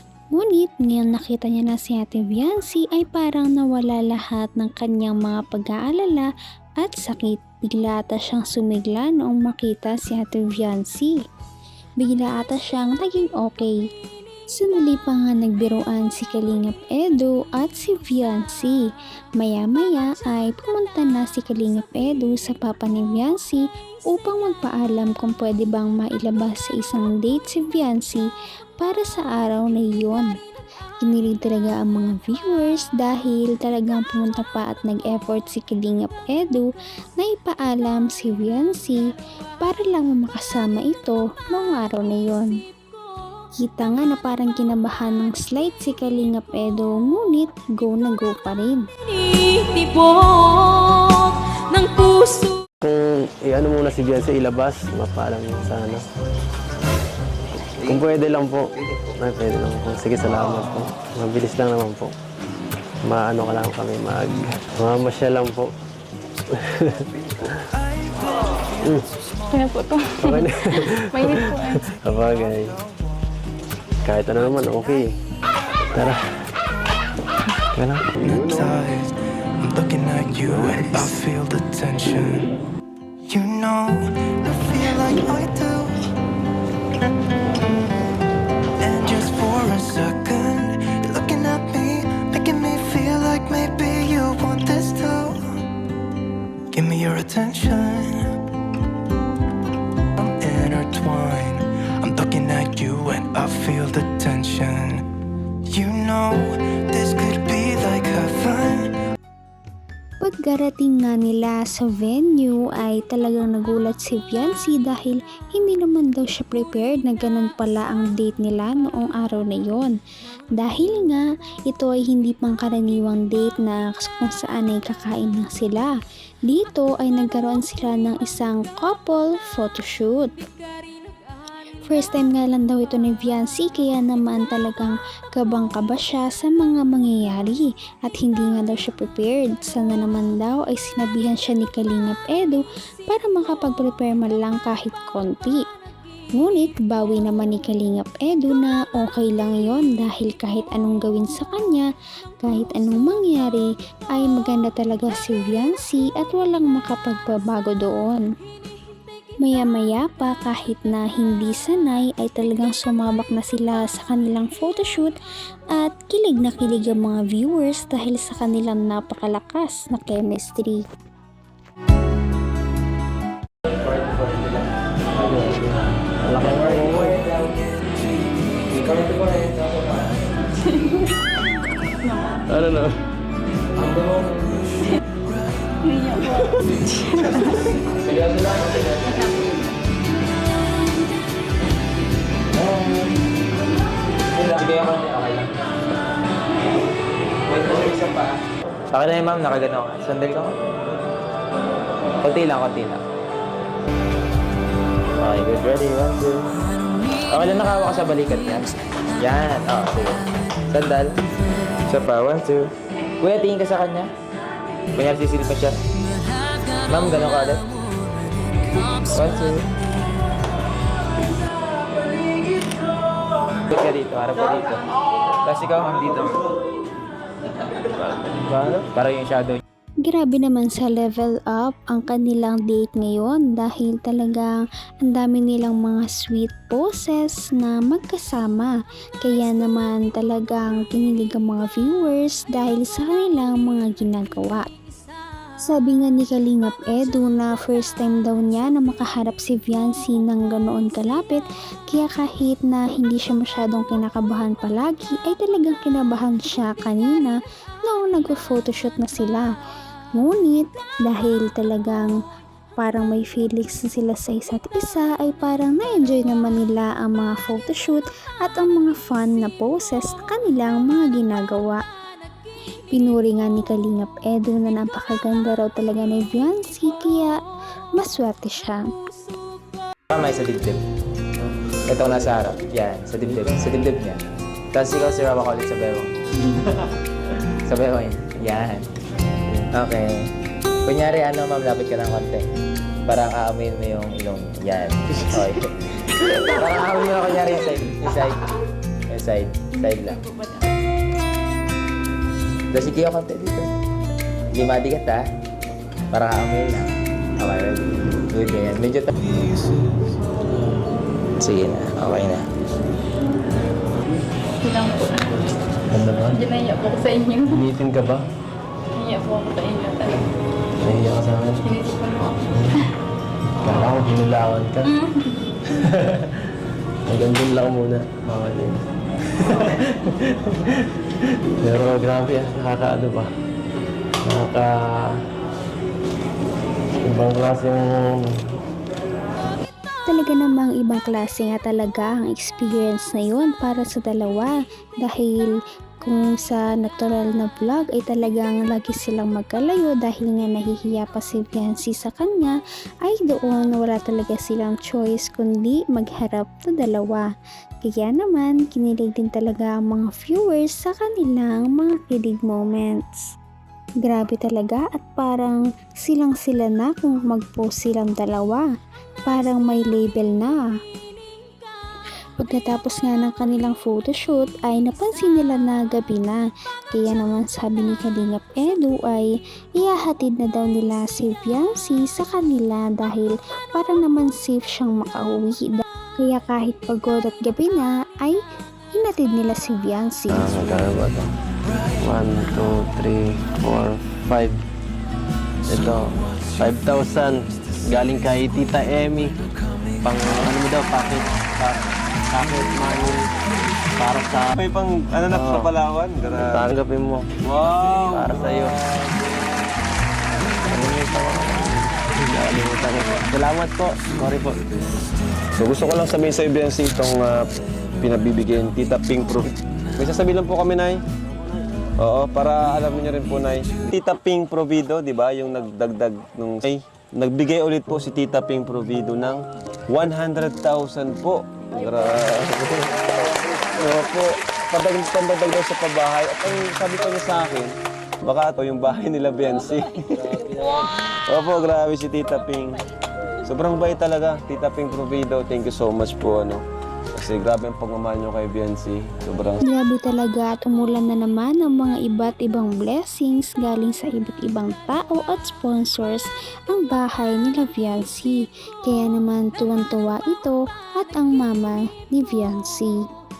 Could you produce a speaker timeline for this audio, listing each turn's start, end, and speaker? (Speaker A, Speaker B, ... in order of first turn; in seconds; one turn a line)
Speaker A: 0.3-11.2
Speaker A: 12.0-13.8
Speaker A: 14.5-18.8
Speaker A: 19.4-28.3
Speaker A: 28.8-30.3
Speaker A: 31.0-39.0
Speaker A: 39.6-42.5
Speaker A: 43.6-48.8
Speaker B: 49.2-52.6
Speaker C: 52.8-56.0
Speaker C: 57.8-62.1
Speaker C: 63.0-65.7
Speaker C: 66.5-67.5
Speaker C: 68.8-69.1
Speaker B: 69.5-71.9
Speaker C: 70.2-72.8
Speaker C: 74.0-75.1
Speaker C: 75.9-76.5
Speaker C: 77.7-78.1
Speaker D: 78.2-82.5
Speaker D: 83.3-86.0
Speaker D: 88.8-95.4
Speaker D: 96.7-98.3
Speaker D: 100.2-105.0
Speaker D: 105.7-108.9
Speaker A: 110.2-120.0
Speaker A: 120.6-125.9
Speaker A: 126.5-130.3
Speaker A: 131.8-145.6
Speaker A: 146.4-151.9
Speaker A: 152.4-158.3
Speaker A: 159.4-165.1
Speaker A: 165.7-170.8
Speaker E: 173.7-174.7
Speaker C: 175.2-177.2
Speaker E: 176.3-177.6
Speaker E: 178.7-180.2
Speaker B: 182.0-182.4
Speaker C: 182.4-183.0
Speaker E: 183.8-184.7
Speaker B: 185.8-187.7
Speaker E: 188.0-189.3
Speaker E: 192.5-193.2
Speaker E: 194.3-195.5
Speaker E: 197.5-198.4
Speaker E: 198.9-200.6
Speaker E: 202.2-203.0
Speaker E: 205.2-206.5
Speaker E: 207.3-211.1
Speaker E: 211.8-214.1
Speaker E: 214.9-215.8
Speaker E: 216.8-217.7
Speaker E: 219.0-219.7
Speaker E: 223.7-224.8
Speaker E: 225.4-226.4
Speaker C: 228.6-228.8
Speaker E: 228.9-229.6
Speaker A: 230.0-244.7
Speaker A: 245.6-259.5
Speaker A: 260.2-262.1
Speaker A: 262.8-271.8
Speaker A: 272.9-277.4
Speaker A: 278.0-278.8
Speaker E: 280.1-280.8
Speaker E: 281.9-284.2
Speaker E: 284.7-286.1
Speaker E: 287.7-288.9
Speaker E: 289.7-290.3
Speaker E: 290.9-292.4
Speaker E: 293.1-298.4
Speaker E: 299.1-300.2
Speaker E: 302.7-303.7
Speaker E: 304.5-305.2
Speaker E: 306.1-309.1
Speaker E: 311.4-312.5
Speaker B: 314.6-315.3
Speaker C: 315.9-316.4
Speaker B: 316.3-317.6
Speaker C: 317.4-318.3
Speaker B: 318.9-320.3
Speaker C: 320.8-321.7
Speaker B: 321.7-322.4
Speaker C: 322.3-322.9
Speaker C: 323.6-325.0
Speaker B: 324.9-325.2
Speaker C: 325.7-326.5
Speaker C: 327.1-330.8
Speaker C: 331.6-333.3
Speaker C: 334.2-335.1
Speaker C: 337.0-338.5
Speaker A: 340.1-357.3
Speaker A: 357.8-363.3
Speaker A: 364.0-368.7
Speaker A: 369.3-370.7
Speaker A: 372.4-388.4
Speaker A: 388.9-390.5
Speaker C: 390.3-391.3
Speaker C: 392.0-394.6
Speaker C: 395.6-396.0
Speaker C: 396.6-399.3
Speaker C: 400.0-401.8
Speaker C: 402.3-403.2
Speaker C: 404.0-404.6
Speaker F: 404.6-406.4
Speaker C: 405.3-405.7
Speaker C: 406.4-407.3
Speaker F: 407.5-408.2
Speaker C: 408.1-408.7
Speaker C: 410.7-414.6
Speaker F: 415.6-417.4
Speaker F: 418.0-421.0
Speaker F: 422.0-432.9
Speaker F: 433.8-437.7
Speaker F: 438.2-442.7
Speaker F: 443.4-446.6
Speaker F: 447.2-449.6
Speaker A: 449.6-462.9